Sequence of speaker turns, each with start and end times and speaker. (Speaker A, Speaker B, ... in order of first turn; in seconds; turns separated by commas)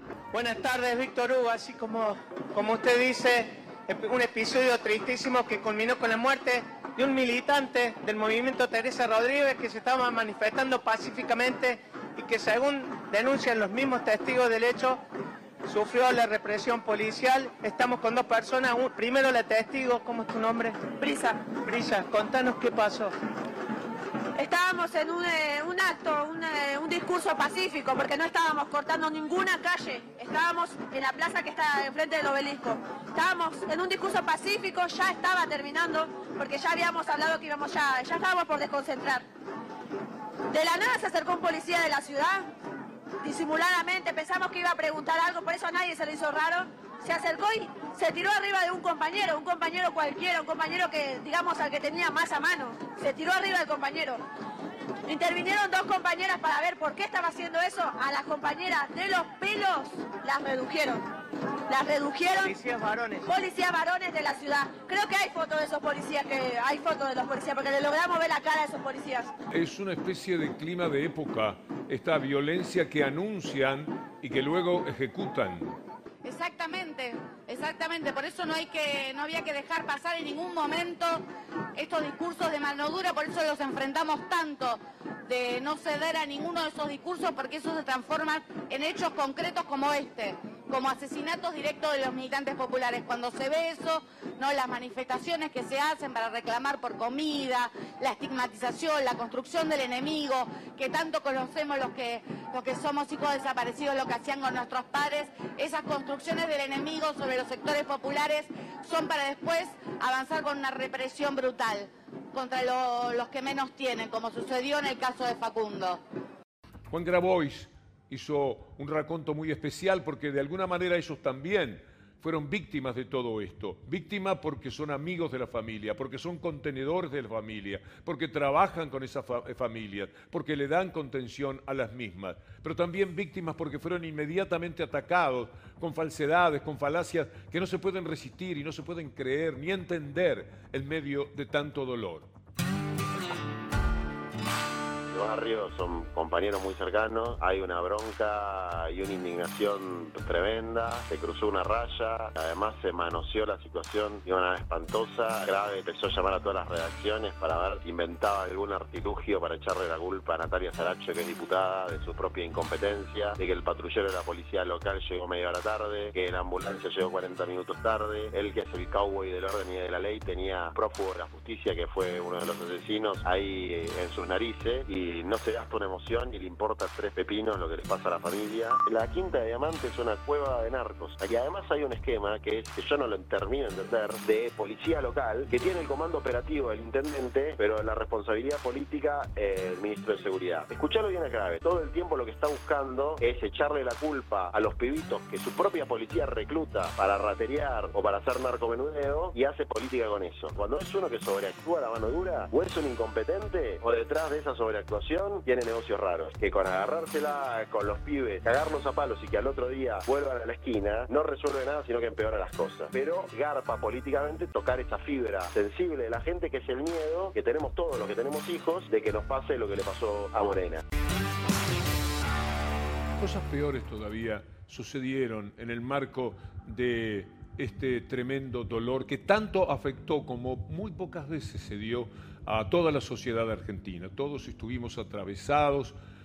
Speaker A: 0.3-15.0, Speaker A: 15.7-20.8, Speaker B: 21.0-21.4, Speaker A: 21.5-23.1, Speaker B: 24.4-39.2, Speaker B: 40.5-42.5, Speaker B: 43.2-54.2, Speaker B: 55.1-61.0, Speaker B: 61.7-62.5, Speaker A: 62.4-63.3, Speaker B: 63.3-69.3, Speaker C: 69.5-75.8, Speaker D: 76.2-81.2, Speaker D: 81.8-116.0, Speaker C: 116.9-142.3, Speaker E: 145.1-220.8, Speaker C: 223.2-235.9